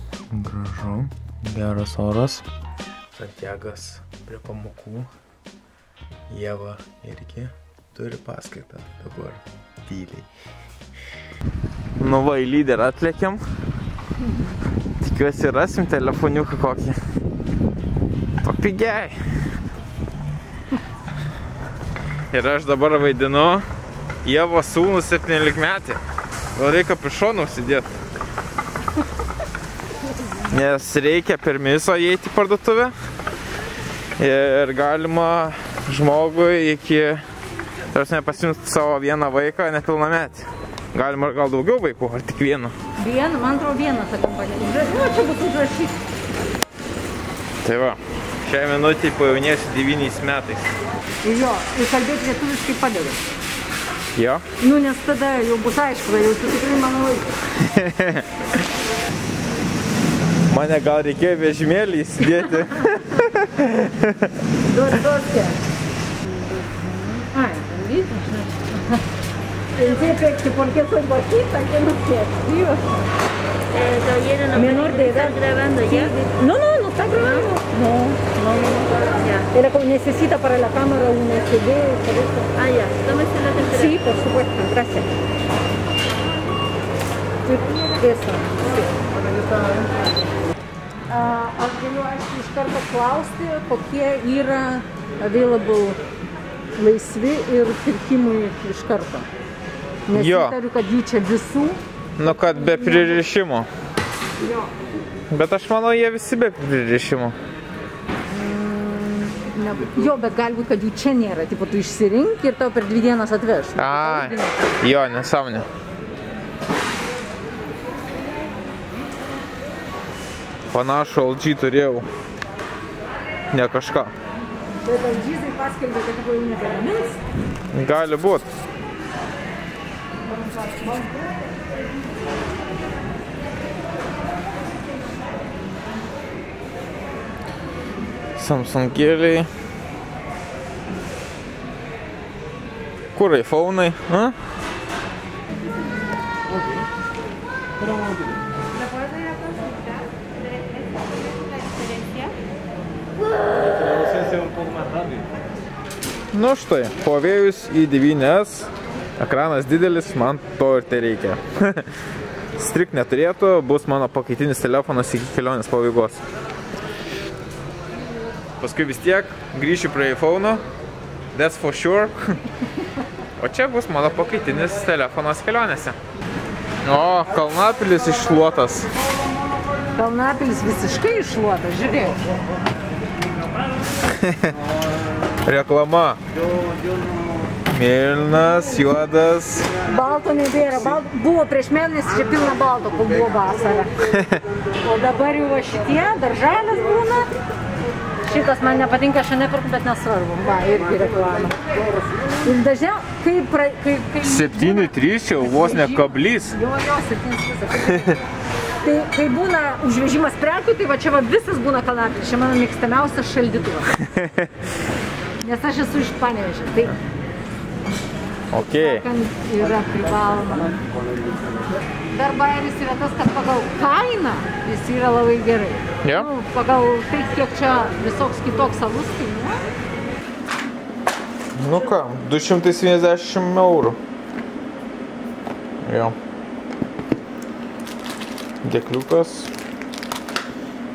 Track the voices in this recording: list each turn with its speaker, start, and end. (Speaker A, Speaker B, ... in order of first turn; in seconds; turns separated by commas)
Speaker A: 0.3-2.5, Speaker A: 3.1-5.1, Speaker A: 6.3-10.3, Speaker A: 12.0-13.4, Speaker A: 15.0-17.0, Speaker A: 18.4-19.2, Speaker A: 22.3-23.7, Speaker A: 24.2-26.0, Speaker A: 26.5-28.0, Speaker A: 30.5-32.9, Speaker A: 34.2-37.2, Speaker A: 37.9-42.7, Speaker B: 43.0-46.0, Speaker A: 47.6-50.7, Speaker B: 51.2-53.2, Speaker A: 54.1-54.4, Speaker B: 54.6-57.3, Speaker A: 57.6-58.3, Speaker A: 60.5-64.3, Speaker B: 64.7-65.6, Speaker B: 66.3-69.0, Speaker B: 69.7-73.0, Speaker C: 73.8-74.5, Speaker B: 74.3-85.1, Speaker C: 82.7-83.5, Speaker B: 87.4-88.9, Speaker B: 91.1-96.0, Speaker B: 96.7-99.3, Speaker B: 100.1-103.2, Speaker A: 100.1-100.5, Speaker A: 102.2-103.7, Speaker B: 104.4-104.7, Speaker A: 105.3-107.3, Speaker B: 108.3-114.8, Speaker A: 113.8-115.7, Speaker A: 120.7-122.1, Speaker A: 123.5-124.1, Speaker B: 124.8-127.2, Speaker A: 127.7-128.5, Speaker B: 130.6-130.9, Speaker A: 138.4-139.5, Speaker A: 143.1-144.4, Speaker C: 149.3-149.9, Speaker A: 156.3-161.9, Speaker A: 162.6-166.2, Speaker A: 168.6-170.6, Speaker A: 171.3-172.4, Speaker A: 173.4-176.0, Speaker A: 176.8-178.9, Speaker B: 179.9-182.2, Speaker A: 184.1-184.6, Speaker A: 185.4-186.2, Speaker A: 187.7-189.7, Speaker B: 189.8-193.9, Speaker A: 194.1-194.4, Speaker B: 194.8-197.4, Speaker B: 198.2-201.6, Speaker B: 202.4-208.2, Speaker A: 204.2-206.6, Speaker A: 207.7-208.1, Speaker B: 208.8-214.0, Speaker A: 214.0-214.5, Speaker B: 215.4-217.0, Speaker A: 218.5-219.0, Speaker B: 218.5-220.8, Speaker B: 222.1-229.7, Speaker A: 231.6-234.0, Speaker A: 235.8-236.2, Speaker A: 238.6-239.5